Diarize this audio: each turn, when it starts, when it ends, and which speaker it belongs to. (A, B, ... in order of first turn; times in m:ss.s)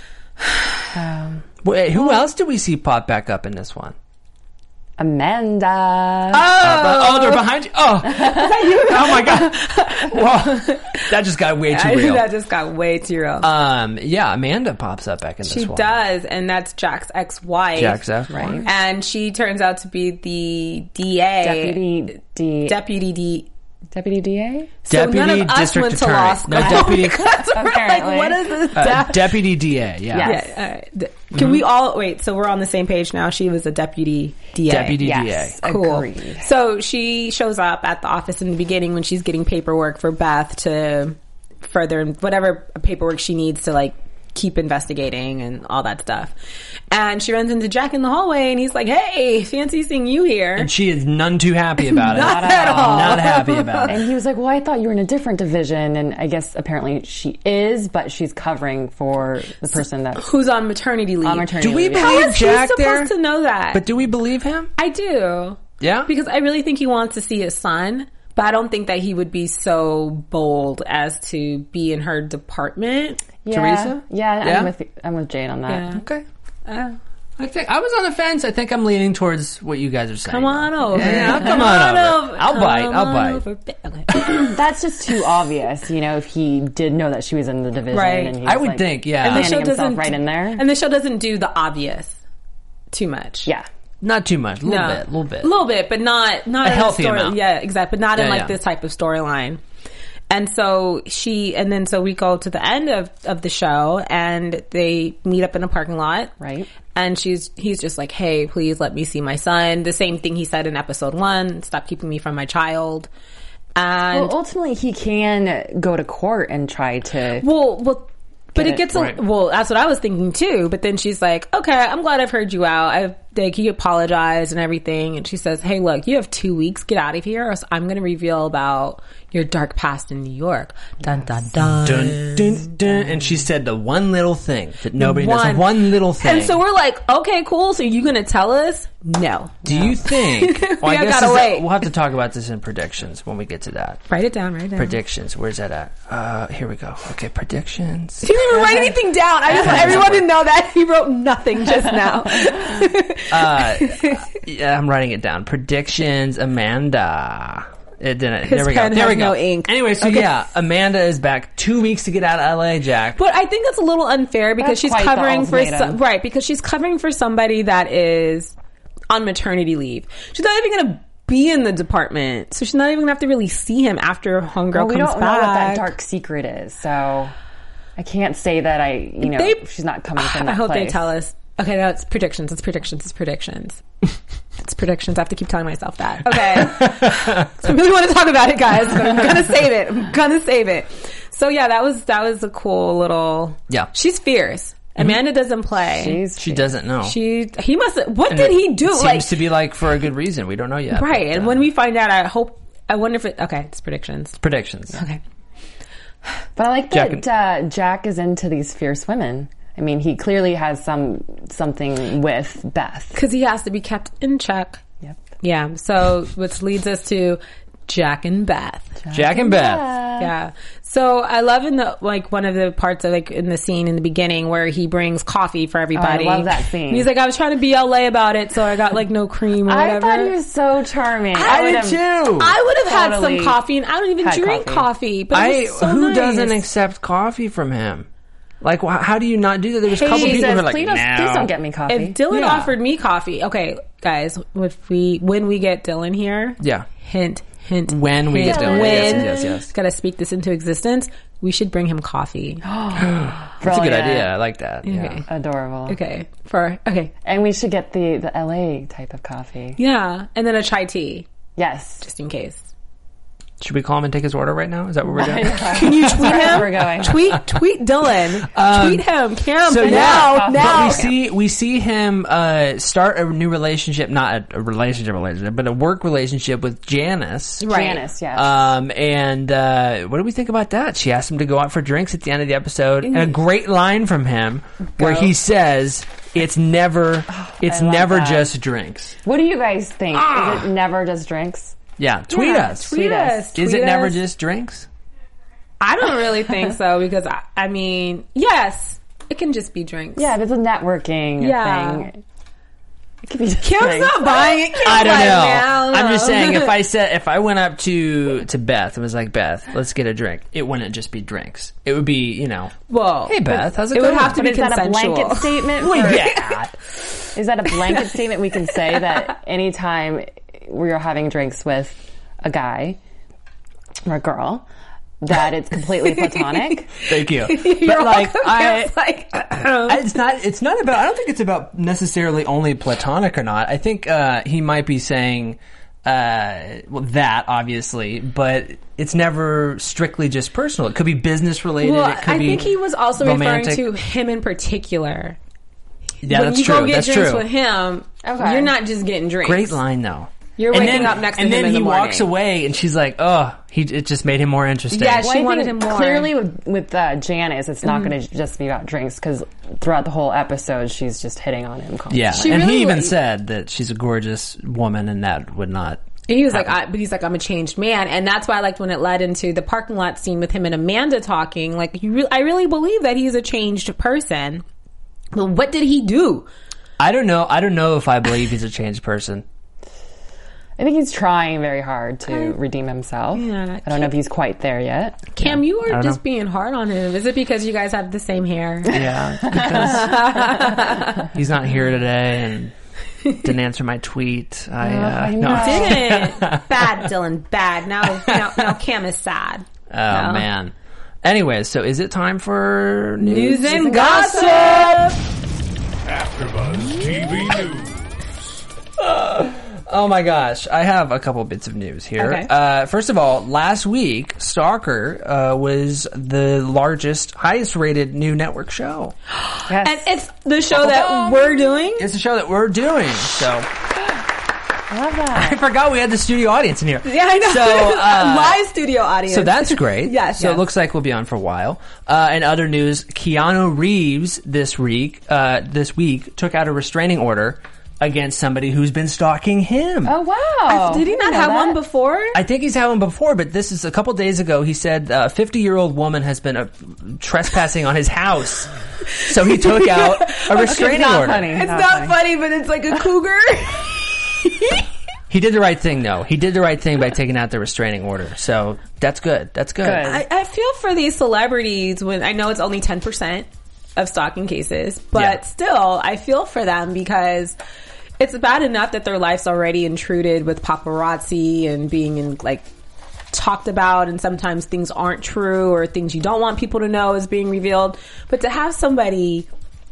0:00.9-0:01.4 A
0:01.6-0:03.9 B
0:05.0-0:06.5 A
0:06.3-0:07.5 C
0:06.4-0:12.3 B
0:08.1-0:11.1 C
0:11.7-0:13.5 C
0:13.4-0:15.9 B
0:15.4-0:18.0 C
0:17.8-0:18.6 B
0:18.3-0:18.7 A
0:18.6-0:21.9 C
0:21.4-0:22.8 A
0:22.6-0:23.5 C
0:23.9-0:24.7 A
0:24.8-0:29.4 C
0:24.9-0:27.3 B
0:26.6-0:28.6 A
0:28.7-0:30.4 B
0:30.1-0:30.5 A
0:30.2-0:46.3 C
0:31.3-0:31.6 B
0:34.7-0:35.6 B
0:34.9-0:36.4 A
0:46.9-0:50.7 C
0:50.6-0:54.0 B
0:51.9-0:53.9 C
0:52.1-0:53.3 A
0:53.9-1:00.3 A
1:00.2-1:03.9 C
1:01.2-1:02.3 A
1:01.6-1:03.1 B
1:03.7-1:04.7 B
1:04.8-1:13.2 C
1:05.8-1:06.1 B
1:13.4-1:15.9 A
1:13.5-1:14.7 B
1:15.7-1:16.0 C
1:15.9-1:16.2 B
1:16.6-1:17.0 C
1:17.4-1:23.4 B
1:20.2-1:24.5 C
1:21.0-1:21.5 A
1:24.2-1:30.6 A
1:27.9-1:28.4 C
1:28.4-1:29.5 B
1:29.2-1:32.2 C
1:32.9-1:33.5 C
1:34.0-1:35.5 B
1:34.6-1:39.6 C
1:36.6-1:37.4 B
1:38.2-1:38.5 B
1:40.3-1:46.3 C
1:46.4-1:46.7 A
1:46.9-1:53.1 C
1:53.8-1:54.4 C
1:54.1-1:57.4 A
1:57.4-2:12.6 C
1:58.6-1:58.8 A
2:11.8-2:16.6 B
2:15.0-2:21.9 C
2:19.6-2:24.0 B
2:24.1-2:25.0 C
2:24.8-2:28.8 B
2:28.2-2:34.2 C
2:29.5-2:30.3 B
2:33.3-2:43.2 B
2:38.4-2:40.4 C
2:43.2-2:48.6 C
2:44.6-2:46.0 A
2:49.1-2:55.9 C
2:54.7-2:57.3 A
2:58.0-3:01.1 A
2:59.2-2:59.6 C
3:00.2-3:03.8 C
3:04.6-3:16.2 C
3:06.4-3:07.5 B
3:15.9-3:16.7 A
3:16.4-3:17.2 B
3:17.0-3:19.3 C
3:18.3-3:21.6 B
3:20.9-3:24.4 C
3:24.4-3:25.0 B
3:24.9-3:25.2 C
3:26.6-3:33.2 A
3:26.9-3:27.2 B
3:33.1-3:34.8 C
3:35.4-3:39.0 C
3:39.0-3:40.3 A
3:39.1-3:39.9 B
3:40.2-3:50.4 C
3:45.9-3:47.1 A
3:49.6-3:52.0 A
3:51.4-3:56.6 C
3:51.4-3:52.6 B
3:52.7-3:53.6 A
3:54.2-3:54.9 A
3:55.3-3:58.1 B
3:58.6-4:01.5 B
4:00.0-4:02.2 A
4:00.0-4:00.6 C
4:01.9-4:12.6 C
4:02.3-4:02.7 B
4:06.6-4:06.9 B
4:07.9-4:09.7 B
4:08.4-4:09.6 A
4:12.6-4:14.3 A
4:12.9-4:15.2 B
4:14.8-4:15.2 C
4:15.2-4:16.0 A
4:15.9-4:17.1 C
4:17.2-4:19.8 A
4:19.8-4:21.3 C
4:21.6-4:22.0 A
4:22.0-4:22.6 C
4:23.6-4:26.7 B
4:25.1-4:27.4 A
4:25.7-4:31.1 C
4:28.5-4:29.0 B
4:29.6-4:37.8 B
4:29.8-4:31.2 A
4:37.6-4:38.0 C
4:37.7-4:38.7 A
4:38.3-4:49.2 B
4:45.0-4:45.3 C
4:47.4-4:48.5 A
4:49.2-4:51.8 A
4:50.1-4:50.7 B
4:52.0-4:53.0 B
4:52.3-4:54.2 C
4:52.8-4:53.5 A
4:53.6-4:54.9 B
4:55.8-5:00.3 C
5:00.2-5:02.2 A
5:01.4-5:02.1 C
5:03.2-5:04.7 A
5:03.6-5:06.8 C
5:04.8-5:14.4 B
5:12.9-5:16.1 C
5:14.2-5:16.5 A
5:15.8-5:16.7 B
5:17.4-5:23.0 A
5:24.0-5:24.6 A
5:25.2-5:26.9 A
5:26.2-5:30.0 C
5:27.0-5:28.9 B
5:29.8-5:43.9 B
5:41.8-5:45.4 C
5:46.2-5:47.5 B
5:46.2-5:49.8 C
5:48.2-5:48.7 A
5:49.4-5:55.3 B
5:50.6-5:52.3 C
5:54.9-5:56.4 C
5:55.2-6:02.6 A
6:02.1-6:06.7 B
6:02.4-6:03.1 C
6:06.3-6:14.6 C
6:15.3-6:16.5 C
6:17.0-6:19.4 B
6:20.8-6:25.3 A
6:22.3-6:22.6 C
6:23.3-6:24.1 C
6:25.3-6:31.3 C
6:25.4-6:26.2 B
6:28.9-6:32.7 B
6:29.5-6:29.9 A
6:33.3-6:37.1 B
6:34.8-6:36.2 A
6:35.5-6:40.4 C
6:38.2-6:38.7 B
6:39.9-6:44.4 B
6:43.2-6:45.2 C
6:43.5-6:45.0 A
6:46.1-6:48.0 D
6:49.0-6:59.1 B
6:52.2-6:52.5 C
6:59.4-7:02.1 C
6:59.7-7:00.1 A
7:00.7-7:01.9 A
7:02.0-7:03.7 B
7:04.9-7:05.6 A
7:05.3-7:08.6 B
7:07.0-7:10.6 C
7:09.3-7:20.2 B
7:20.0-7:21.8 A
7:20.7-7:22.4 C
7:22.3-7:31.5 B
7:29.3-7:34.8 C
7:30.5-7:32.2 A
7:35.3-7:40.1 B
7:39.8-7:40.2 A
7:40.0-7:47.6 C
7:48.2-7:52.7 C
7:53.3-7:59.5 C